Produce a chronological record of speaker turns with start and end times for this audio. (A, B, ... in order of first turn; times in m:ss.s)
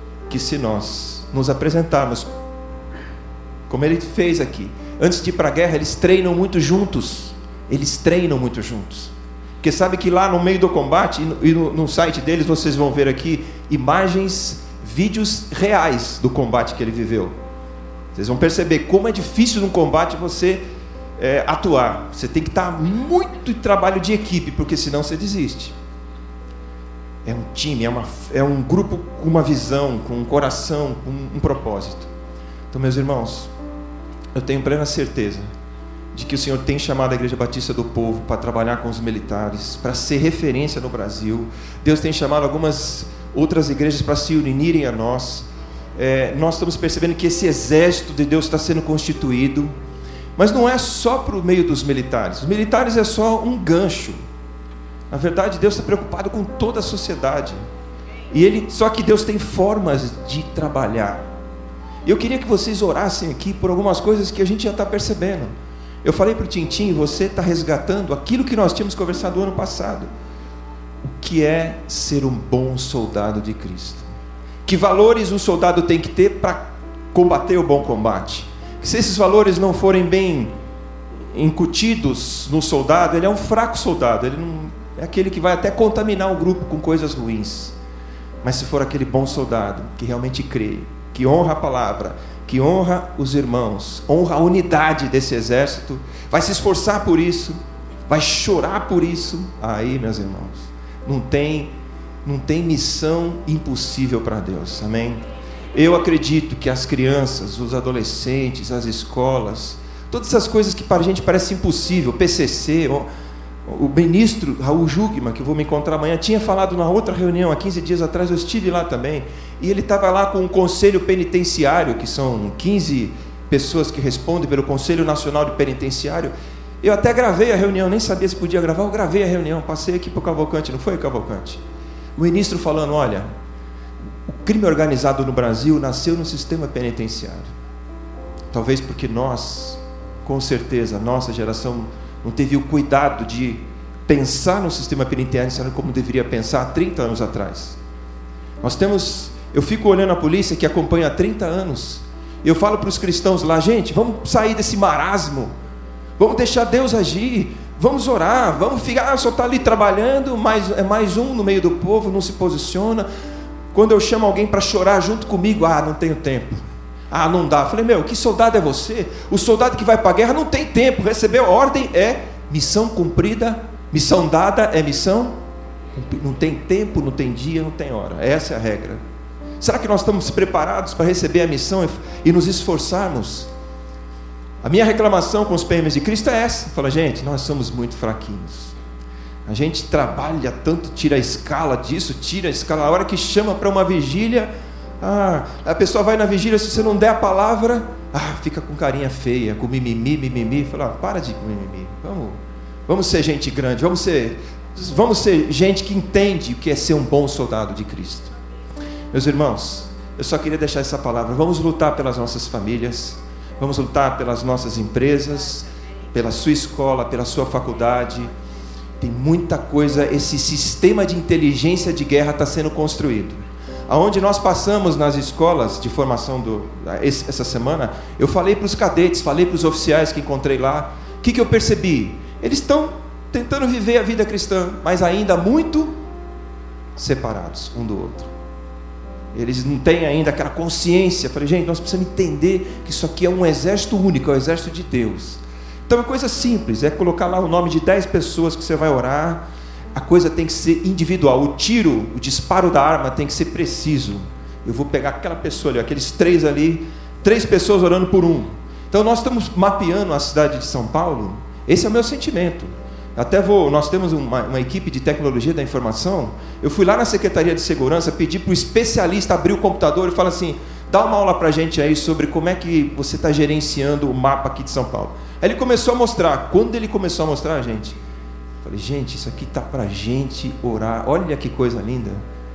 0:00.3-0:02.3 A
0:03.7-0:17.4 A
0:18.2-0:20.6 A
0:21.2-0:25.7 A
0:27.2-0:32.1 A
0:32.7-0:33.5 A
0:34.4-0:35.5 A
0:36.1-0:49.7 A
0:50.4-0:54.2 A
0:55.1-0:57.6 A
0:58.3-1:01.3 A
1:02.0-1:10.1 A
1:11.0-1:14.1 A
1:14.7-1:20.5 A
1:21.3-1:27.8 A
1:28.4-1:37.6 A
1:38.1-1:41.7 A
1:42.2-1:53.1 A
1:53.7-2:11.6 A
2:12.2-2:13.3 A
2:14.3-2:17.5 A
2:18.5-2:27.8 A
2:28.6-2:35.5 A
2:36.2-2:43.1 A
2:43.7-2:55.4 A
2:55.9-2:59.0 A
2:59.6-3:03.5 A
3:04.6-3:08.7 A
3:09.5-3:28.3 A
3:29.1-3:38.3 A
3:39.0-3:56.0 A
3:57.0-3:58.3 A
3:59.3-4:38.0 A
4:38.6-4:42.2 A